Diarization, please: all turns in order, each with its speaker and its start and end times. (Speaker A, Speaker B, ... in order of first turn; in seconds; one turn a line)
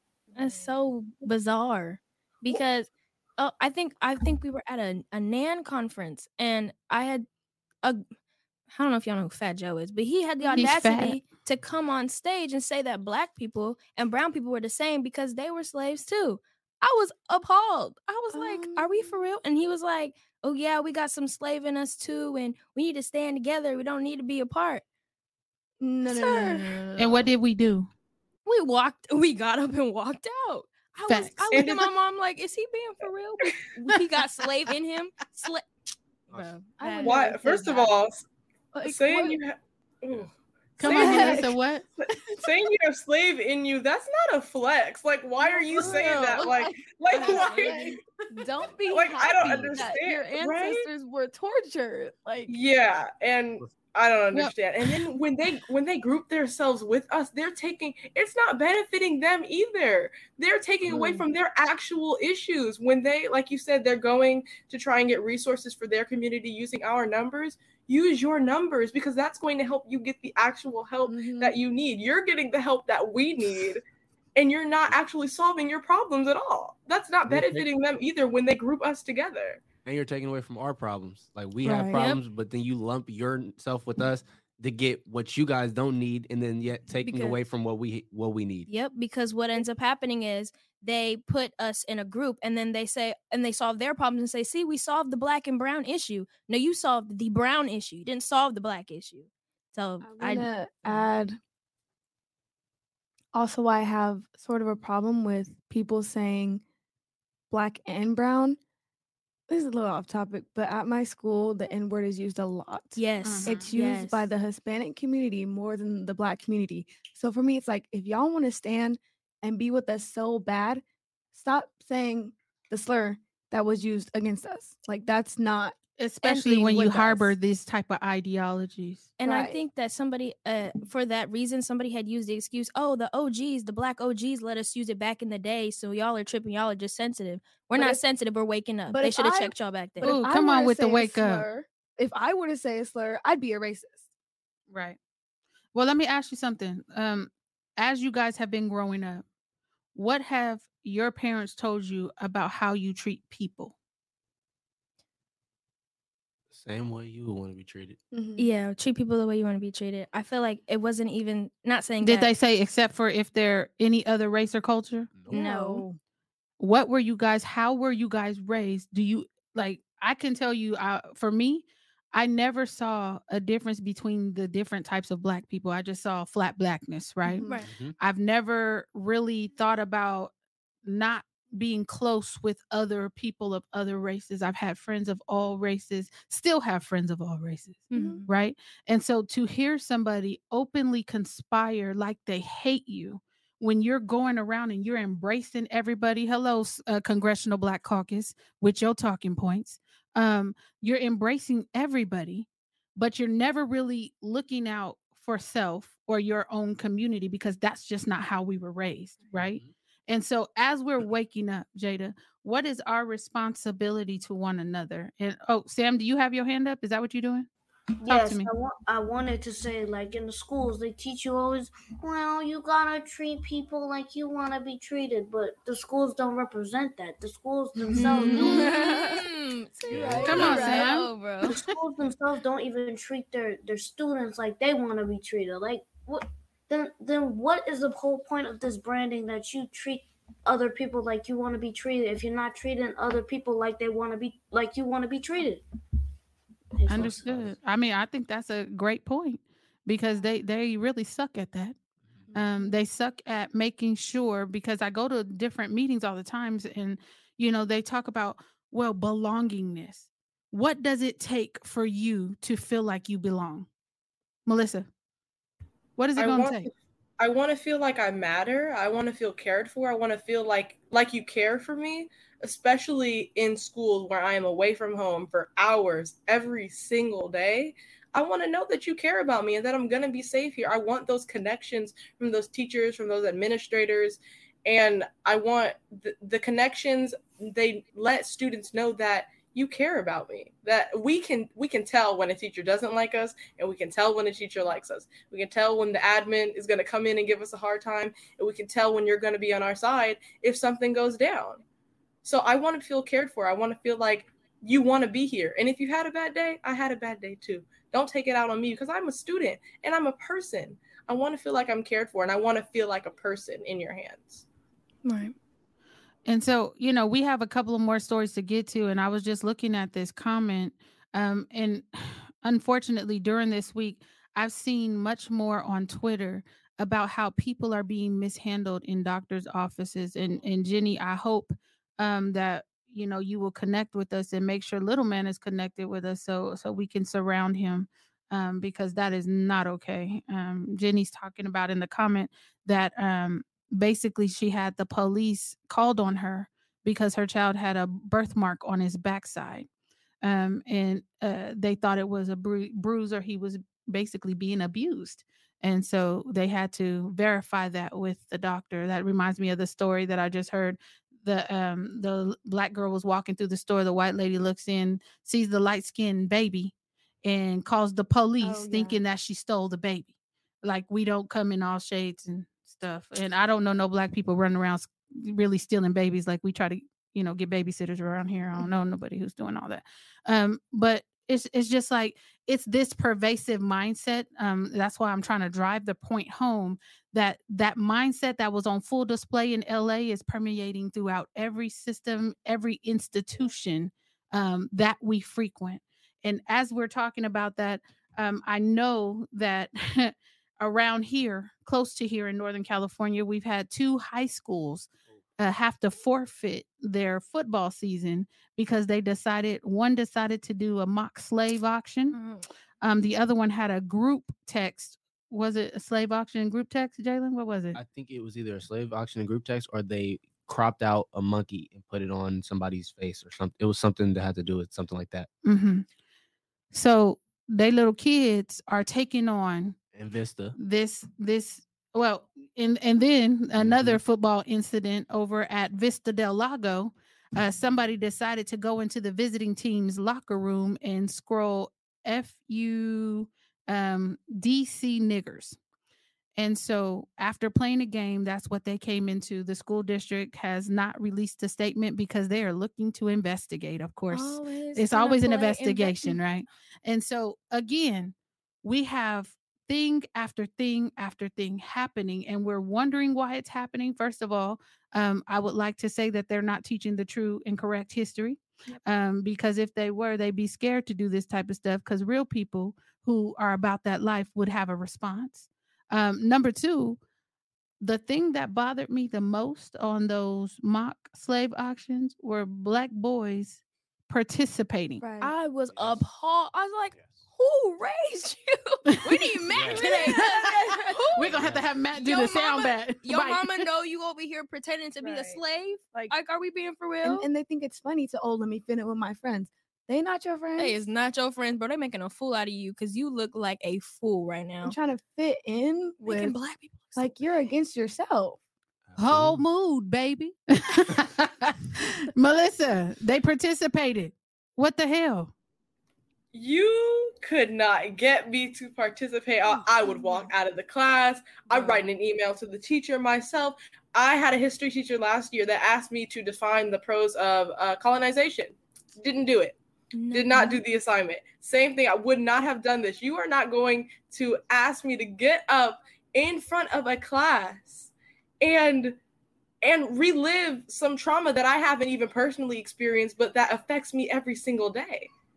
Speaker A: 0.3-7.3
Speaker A: 8.7-24.8
Speaker B: 10.4-10.9
Speaker C: 10.6-11.2
Speaker B: 18.3-19.1
Speaker B: 25.8-27.3
Speaker A: 26.1-26.6
Speaker C: 27.0-27.9
Speaker A: 28.4-35.6
Speaker C: 31.1-31.5
Speaker D: 31.5-31.8
Speaker B: 36.3-37.9
Speaker A: 36.7-37.4
Speaker D: 37.0-38.2
Speaker B: 38.7-39.4
Speaker D: 38.8-41.5
Speaker C: 40.8-41.8
Speaker B: 40.8-41.5
Speaker A: 41.0-41.4
Speaker D: 42.3-48.0
Speaker B: 45.4-52.6
Speaker A: 47.2-47.8
Speaker D: 48.9-50.9
Speaker E: 49.4-49.9
Speaker D: 52.5-73.8
Speaker B: 60.9-61.2
Speaker B: 71.0-71.6
Speaker D: 74.3-79.6
Speaker E: 77.3-77.7
Speaker E: 79.8-88.7
Speaker B: 81.6-82.2
Speaker B: 87.0-87.4
Speaker A: 88.7-101.1
Speaker B: 100.0-101.4
Speaker B: 103.3-106.6
Speaker B: 107.5-108.6
Speaker B: 109.5-127.3
Speaker A: 113.0-114.2
Speaker C: 113.2-113.7
Speaker C: 126.0-129.1
Speaker A: 129.2-140.2
Speaker B: 129.2-129.6
Speaker B: 137.8-138.0
Speaker B: 138.9-144.0
Speaker C: 140.0-141.5
Speaker C: 144.7-145.0
Speaker C: 145.7-149.2
Speaker C: 149.9-153.7
Speaker E: 156.5-158.0
Speaker B: 158.1-158.5
Speaker A: 158.4-162.3
Speaker C: 162.0-165.1
Speaker E: 165.1-165.4
Speaker B: 165.3-166.0
Speaker A: 165.3-165.8
Speaker C: 166.6-180.3
Speaker B: 177.2-177.6
Speaker E: 177.7-177.9
Speaker C: 180.8-217.5
Speaker A: 187.9-188.3
Speaker B: 187.9-188.2
Speaker E: 209.3-209.7
Speaker F: 218.0-228.7
Speaker C: 218.1-218.5
Speaker C: 227.8-228.6
Speaker A: 227.9-231.5
Speaker B: 228.4-229.2
Speaker B: 229.8-231.0
Speaker E: 229.9-230.6
Speaker C: 230.2-231.7
Speaker F: 231.5-245.6
Speaker F: 246.7-247.4
Speaker C: 246.9-251.8
Speaker E: 246.9-247.5
Speaker B: 252.3-252.8
Speaker C: 252.3-263.7
Speaker C: 264.4-264.9
Speaker C: 266.0-266.7
Speaker D: 266.1-301.6
Speaker D: 302.2-314.4
Speaker A: 315.0-315.3
Speaker C: 316.3-349.7
Speaker C: 350.2-370.1
Speaker B: 368.4-369.0
Speaker C: 370.6-412.2
Speaker A: 412.1-412.5
Speaker C: 412.8-417.8
Speaker E: 417.7-425.3
Speaker C: 425.4-425.9
Speaker C: 426.7-429.8
Speaker E: 429.9-430.6
Speaker C: 430.6-445.6
Speaker E: 433.6-434.0
Speaker C: 446.4-477.0
Speaker A: 454.1-456.2
Speaker C: 477.8-485.0
Speaker B: 485.0-485.4
Speaker A: 485.2-491.4
Speaker E: 485.7-486.0
Speaker E: 486.9-487.2
Speaker C: 489.0-489.2
Speaker E: 489.5-489.9
Speaker C: 489.8-493.6
Speaker E: 491.2-491.7
Speaker A: 491.9-497.3
Speaker B: 495.0-495.4
Speaker B: 497.0-500.8
Speaker A: 500.6-504.8
Speaker B: 504.6-506.4
Speaker A: 506.0-507.1
Speaker B: 506.9-508.4
Speaker E: 508.9-509.4
Speaker C: 509.0-515.3
Speaker D: 516.3-529.6
Speaker B: 519.5-520.3
Speaker B: 521.5-521.8
Speaker A: 529.9-530.6
Speaker D: 530.1-539.0
Speaker D: 539.6-545.1